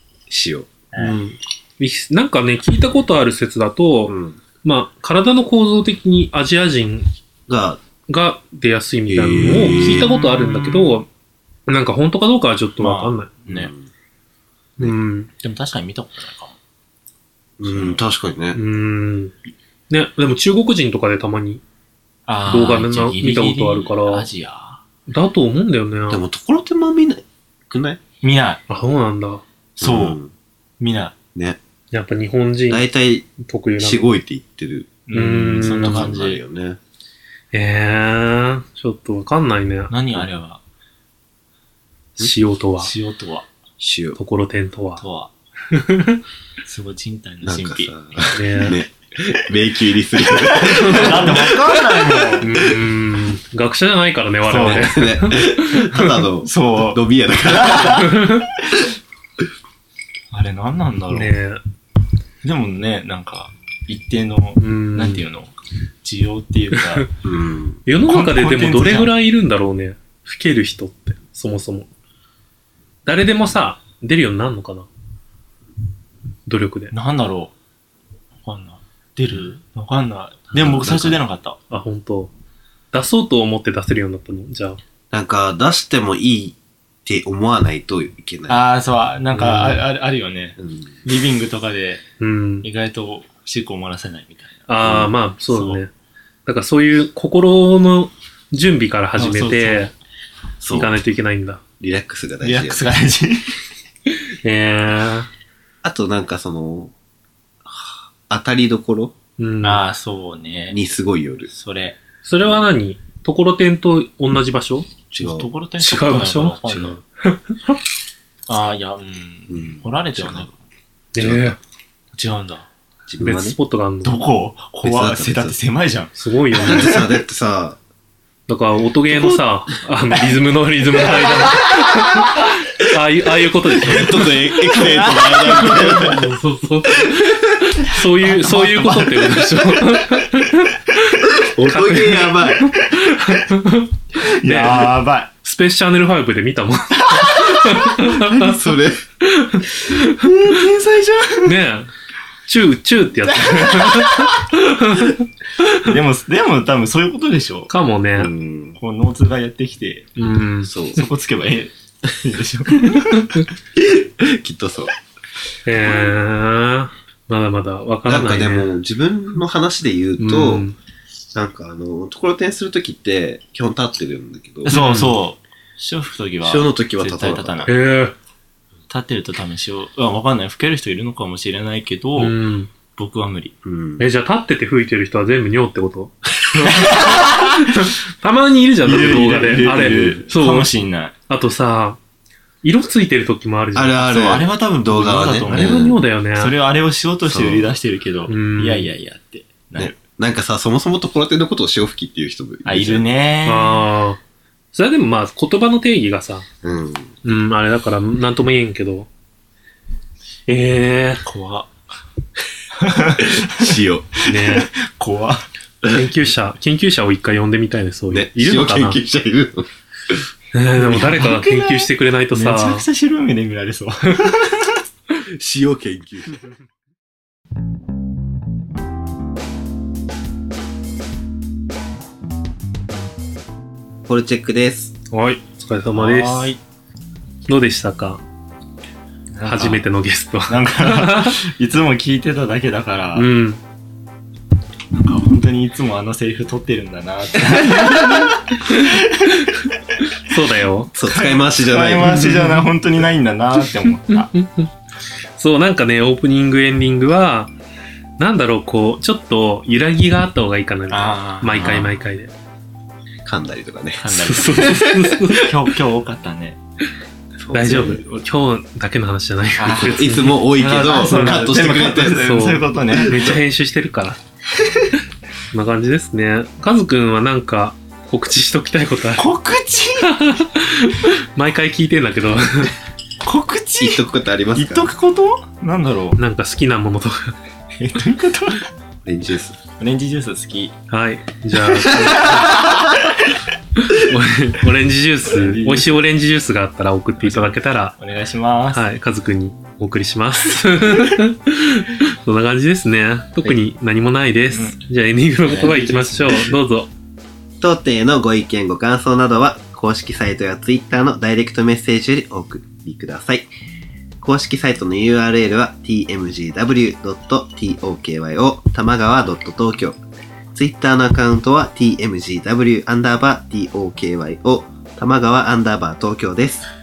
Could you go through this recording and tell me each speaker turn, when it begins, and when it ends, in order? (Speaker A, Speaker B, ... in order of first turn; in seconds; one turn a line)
Speaker A: 0.3-0.8
Speaker B: 1.0-7.1
Speaker A: 4.1-4.4
Speaker A: 7.5-7.8
Speaker B: 8.1-11.1
Speaker A: 9.1-10.9
Speaker B: 11.7-13.3
Speaker C: 12.8-13.7
Speaker A: 13.5-13.9
Speaker B: 14.8-15.3
Speaker C: 15.4-16.6
Speaker A: 17.6-18.6
Speaker C: 17.6-18.0
Speaker B: 18.5-19.3
Speaker B: 19.9-21.6
Speaker C: 22.3-24.8
Speaker B: 22.5-24.3
Speaker B: 25.1-26.2
Speaker A: 26.1-28.0
Speaker C: 28.2-28.6
Speaker B: 28.7-29.4
Speaker C: 29.8-30.2
Speaker A: 29.8-30.3
Speaker C: 30.8-31.1
Speaker A: 31.3-31.6
Speaker B: 31.9-32.9
Speaker A: 32.7-35.0
Speaker B: 33.4-34.1
Speaker C: 35.1-36.4
Speaker B: 35.1-36.1
Speaker A: 35.6-36.8
Speaker B: 37.5-39.9
Speaker C: 39.9-40.6
Speaker B: 42.2-42.9
Speaker C: 42.8-43.5
Speaker A: 43.8-44.2
Speaker B: 44.1-45.0
Speaker C: 45.0-45.3
Speaker B: 45.7-46.2
Speaker C: 46.6-48.5
Speaker A: 47.4-52.0
Speaker B: 48.3-48.8
Speaker C: 50.3-52.6
Speaker B: 50.5-51.6
Speaker B: 52.2-56.2
Speaker C: 54.5-55.0
Speaker A: 54.5-58.2
Speaker C: 56.4-58.2
Speaker B: 58.0-58.5
Speaker C: 60.3-61.3
Speaker B: 61.1-61.6
Speaker C: 62.4-65.5
Speaker B: 64.6-65.2
Speaker C: 66.0-67.1
Speaker B: 66.7-67.1
Speaker A: 67.2-67.8
Speaker B: 67.8-71.9
Speaker C: 68.0-69.1
Speaker B: 73.0-74.9
Speaker B: 76.5-76.9
Speaker C: 76.9-77.5
Speaker C: 78.4-81.6
Speaker A: 80.5-81.2
Speaker B: 81.7-82.3
Speaker B: 82.9-84.8
Speaker A: 85.1-88.6
Speaker C: 88.5-92.0
Speaker B: 89.3-89.8
Speaker A: 90.6-90.9
Speaker B: 92.2-92.7
Speaker C: 92.6-94.7
Speaker B: 94.7-95.9
Speaker A: 94.8-95.1
Speaker C: 95.5-95.8
Speaker B: 96.5-99.9
Speaker C: 99.2-99.9
Speaker A: 100.6-100.9
Speaker B: 100.7-101.6
Speaker A: 101.8-102.9
Speaker C: 102.4-103.5
Speaker B: 104.4-105.3
Speaker A: 105.8-106.9
Speaker A: 107.7-109.1
Speaker B: 109.4-109.8
Speaker C: 109.6-110.8
Speaker A: 110.7-111.5
Speaker C: 111.5-112.0
Speaker B: 112.2-114.9
Speaker A: 115.1-115.5
Speaker C: 115.2-117.0
Speaker B: 115.8-117.8
Speaker A: 116.7-117.0
Speaker C: 118.5-120.6
Speaker A: 119.5-120.5
Speaker B: 121.1-121.6
Speaker A: 121.2-121.6
Speaker C: 122.1-122.7
Speaker A: 123.1-123.5
Speaker B: 123.2-124.2
Speaker C: 124.0-126.1
Speaker A: 124.8-125.5
Speaker B: 126.2-127.0
Speaker A: 126.6-127.8
Speaker B: 128.5-148.6
Speaker C: 130.9-132.1
Speaker A: 133.8-136.3
Speaker C: 134.7-136.1
Speaker A: 137.0-137.3
Speaker C: 138.2-140.0
Speaker A: 141.4-142.7
Speaker C: 144.2-145.3
Speaker C: 147.0-148.1
Speaker A: 148.3-149.0
Speaker B: 149.2-150.6
Speaker C: 150.0-151.6
Speaker B: 151.4-151.9
Speaker B: 152.5-155.9
Speaker C: 153.2-154.4
Speaker C: 155.8-157.7
Speaker B: 157.7-158.3
Speaker A: 158.2-158.8
Speaker C: 158.8-160.2
Speaker B: 160.2-160.7
Speaker A: 160.7-161.0
Speaker C: 160.9-163.3
Speaker B: 162.9-163.5
Speaker A: 163.7-164.9
Speaker B: 165.6-168.7
Speaker A: 165.8-166.1
Speaker A: 168.1-170.6
Speaker B: 170.2-170.8
Speaker A: 171.3-174.7
Speaker C: 174.6-177.7
Speaker B: 174.7-175.2
Speaker A: 176.4-177.7
Speaker B: 177.7-178.1
Speaker C: 178.9-182.3
Speaker B: 182.2-182.7
Speaker C: 182.9-183.5
Speaker A: 183.6-184.0
Speaker B: 184.0-190.7
Speaker C: 186.8-187.7
Speaker C: 188.8-191.1
Speaker B: 191.3-192.0
Speaker B: 192.6-194.1
Speaker A: 193.7-196.0
Speaker C: 194.1-200.0
Speaker B: 195.5-196.5
Speaker A: 197.2-197.7
Speaker B: 198.3-198.9
Speaker A: 199.8-203.0
Speaker C: 202.6-203.9
Speaker B: 203.4-204.2
Speaker B: 204.7-206.5
Speaker A: 206.6-207.1
Speaker B: 207.2-209.1
Speaker B: 210.5-211.2
Speaker C: 211.2-211.7
Speaker C: 212.8-215.4
Speaker A: 213.1-214.1
Speaker B: 214.2-214.7
Speaker B: 215.8-219.0
Speaker A: 218.1-220.2
Speaker B: 220.5-222.8
Speaker C: 220.8-224.8
Speaker A: 225.2-226.4
Speaker A: 234.1-234.9
Speaker B: 235.1-236.5
Speaker C: 235.9-236.6
Speaker B: 237.5-238.2
Speaker C: 239.3-239.8
Speaker B: 239.4-241.4
Speaker C: 240.5-243.3
Speaker B: 243.1-243.6
Speaker C: 245.0-249.5
Speaker B: 247.7-250.9
Speaker A: 250.9-252.2
Speaker C: 251.0-254.3
Speaker B: 252.0-252.6
Speaker B: 253.8-254.7
Speaker B: 255.4-257.5
Speaker B: 258.2-262.3
Speaker C: 260.9-262.0
Speaker A: 263.2-265.1
Speaker C: 264.0-266.6
Speaker B: 264.2-265.5
Speaker A: 267.4-268.0
Speaker B: 267.5-270.4
Speaker C: 267.7-268.1
Speaker C: 269.6-273.4
Speaker A: 269.7-272.4
Speaker B: 271.1-271.6
Speaker B: 272.1-274.2
Speaker A: 272.9-273.4
Speaker C: 274.6-274.9
Speaker B: 275.5-279.2
Speaker C: 279.2-280.2
Speaker B: 280.0-282.7
Speaker C: 283.2-284.0
Speaker A: 283.8-284.9
Speaker C: 284.5-286.2
Speaker B: 286.2-287.3
Speaker C: 287.8-288.7
Speaker A: 289.1-289.6
Speaker C: 289.8-290.7
Speaker B: 290.9-292.6
Speaker C: 291.8-293.0
Speaker B: 293.8-297.9
Speaker C: 295.3-295.9
Speaker C: 297.2-298.9
Speaker B: 298.7-306.9
Speaker C: 304.5-304.8
Speaker C: 305.4-306.5
Speaker A: 307.6-313.5
Speaker A: 314.2-320.0
Speaker A: 320.5-326.6